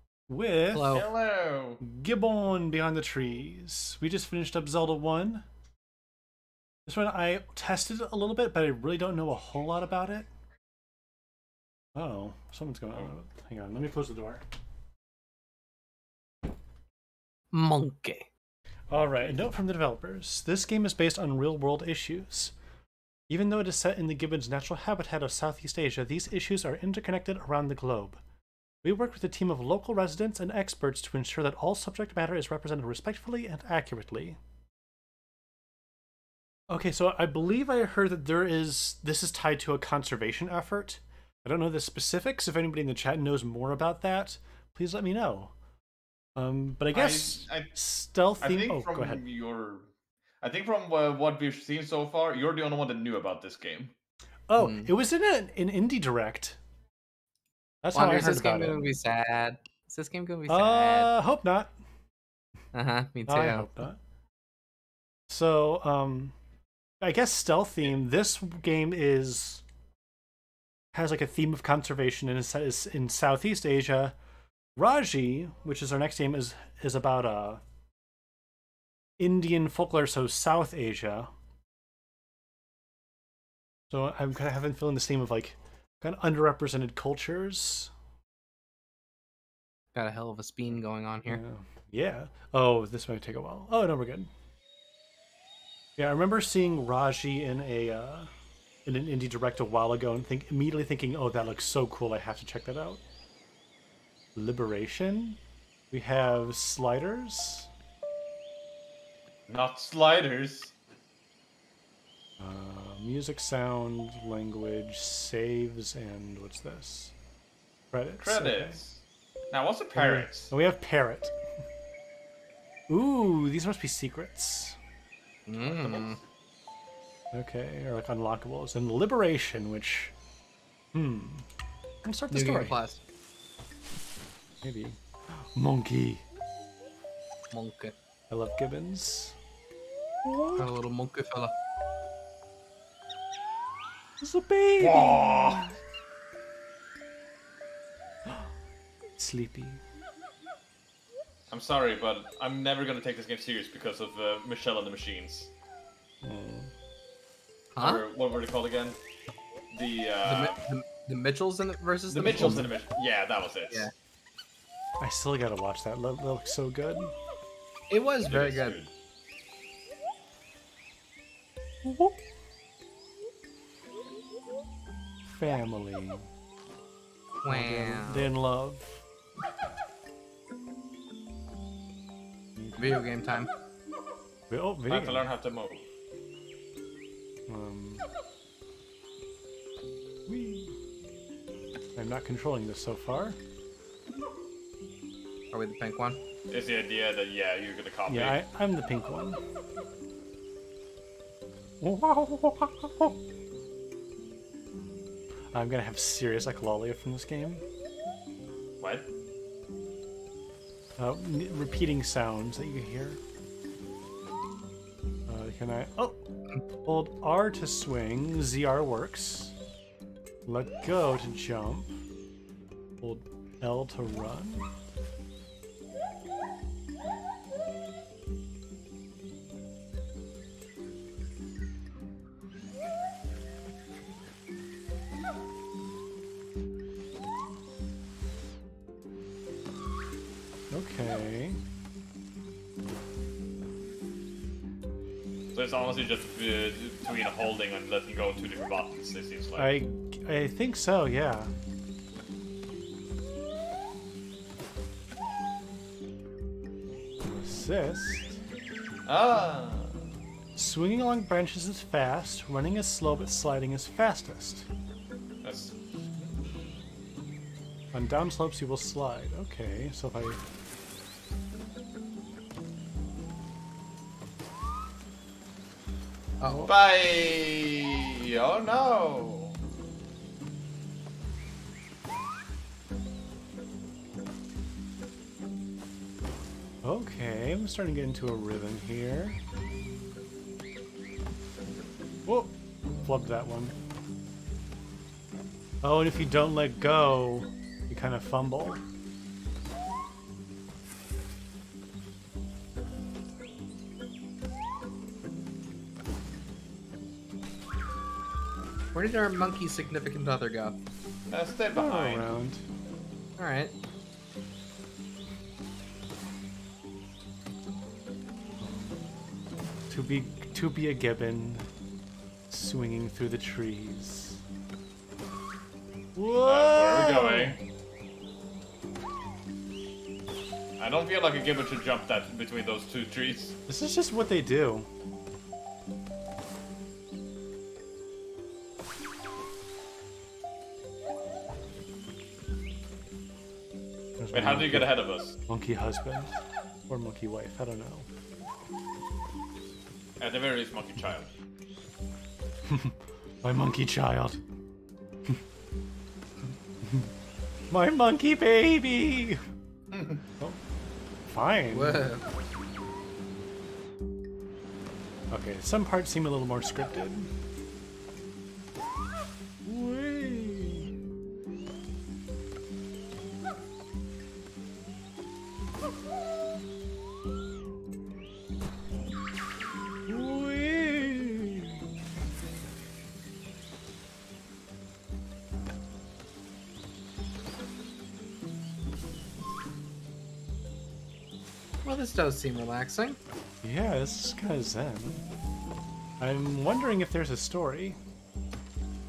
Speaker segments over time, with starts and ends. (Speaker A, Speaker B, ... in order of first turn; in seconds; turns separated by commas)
Speaker A: 0.3-1.0, Speaker B: 0.7-1.1, Speaker C: 0.9-1.8, Speaker A: 1.8-5.4, Speaker A: 6.8-10.3, Speaker A: 11.9-14.4, Speaker B: 17.5-18.3, Speaker A: 18.9-22.5, Speaker A: 23.3-28.2, Speaker A: 28.8-34.4, Speaker A: 36.7-45.5, Speaker A: 46.4-49.2, Speaker C: 46.9-47.7, Speaker C: 48.4-49.9, Speaker C: 50.4-53.9, Speaker A: 54.5-56.6, Speaker B: 54.6-54.9, Speaker A: 57.8-58.8, Speaker B: 57.9-61.1, Speaker A: 60.5-61.7, Speaker B: 62.7-63.8, Speaker A: 63.3-64.0, Speaker A: 65.3-66.3, Speaker A: 67.0-69.6, Speaker A: 70.9-74.2, Speaker A: 74.8-77.6, Speaker A: 79.2-81.3, Speaker A: 83.9-87.9, Speaker B: 89.9-91.4, Speaker A: 91.3-94.3, Speaker A: 96.0-98.3, Speaker A: 98.8-103.0, Speaker A: 104.3-105.4, Speaker A: 105.9-107.7, Speaker C: 109.5-110.7, Speaker A: 112.4-117.1, Speaker A: 117.9-118.8, Speaker C: 118.2-119.0, Speaker C: 119.5-120.5, Speaker A: 119.9-121.3, Speaker A: 122.9-124.8, Speaker B: 125.5-126.2, Speaker C: 125.6-126.2, Speaker A: 127.3-130.1, Speaker A: 130.9-131.5, Speaker A: 132.0-132.8, Speaker B: 132.3-133.0, Speaker A: 134.6-136.2, Speaker B: 137.5-137.9, Speaker A: 138.3-139.4, Speaker A: 140.2-140.7, Speaker B: 140.6-141.5, Speaker A: 144.2-145.8, Speaker C: 144.8-145.7, Speaker A: 148.2-148.5, Speaker A: 149.2-149.8, Speaker C: 151.5-155.5, Speaker A: 156.2-156.7, Speaker B: 157.7-158.0, Speaker C: 157.8-159.0, Speaker C: 159.7-160.6, Speaker B: 160.2-162.7, Speaker C: 162.1-163.9, Speaker A: 162.3-162.7, Speaker A: 165.0-167.1, Speaker B: 167.9-168.8, Speaker C: 168.3-168.9, Speaker A: 171.8-172.2, Speaker A: 175.2-176.3, Speaker B: 177.4-178.2, Speaker A: 177.5-179.0, Speaker B: 182.8-183.5, Speaker A: 184.5-185.3, Speaker C: 184.9-185.8, Speaker A: 187.5-188.1, Speaker A: 190.3-190.7, Speaker A: 191.9-193.4, Speaker B: 195.5-196.2, Speaker C: 196.5-198.4, Speaker A: 198.1-199.4, Speaker A: 201.8-203.2, Speaker A: 205.5-207.6, Speaker C: 208.8-209.1, Speaker A: 211.0-213.2, Speaker A: 215.3-216.2, Speaker A: 216.8-219.6, Speaker A: 220.4-221.9, Speaker A: 223.0-224.7, Speaker A: 240.7-241.6, Speaker C: 245.5-249.7, Speaker A: 249.6-251.5, Speaker A: 257.2-258.4, Speaker C: 259.1-260.0, Speaker A: 260.6-264.7, Speaker C: 265.4-266.3, Speaker A: 267.9-270.4, Speaker B: 276.4-276.7, Speaker A: 276.4-276.7, Speaker C: 276.7-279.6, Speaker A: 286.8-289.4, Speaker A: 292.2-293.8, Speaker A: 295.8-298.8, Speaker B: 308.9-310.8, Speaker C: 311.3-312.2, Speaker A: 311.7-312.6, Speaker B: 313.4-313.7, Speaker A: 318.6-319.0, Speaker A: 319.9-321.7, Speaker A: 322.5-324.4, Speaker A: 326.1-327.6, Speaker C: 326.4-327.6, Speaker C: 330.8-333.6, Speaker A: 333.7-334.9, Speaker A: 344.2-348.1, Speaker C: 344.3-345.4, Speaker C: 350.2-351.3, Speaker A: 352.7-354.4, Speaker A: 356.8-357.1, Speaker A: 357.7-359.4, Speaker C: 359.9-360.2, Speaker A: 361.3-362.1, Speaker B: 361.7-362.2, Speaker A: 365.3-367.3, Speaker A: 369.6-370.9, Speaker A: 380.1-381.8, Speaker B: 391.8-393.2, Speaker A: 393.6-395.2, Speaker A: 396.2-398.0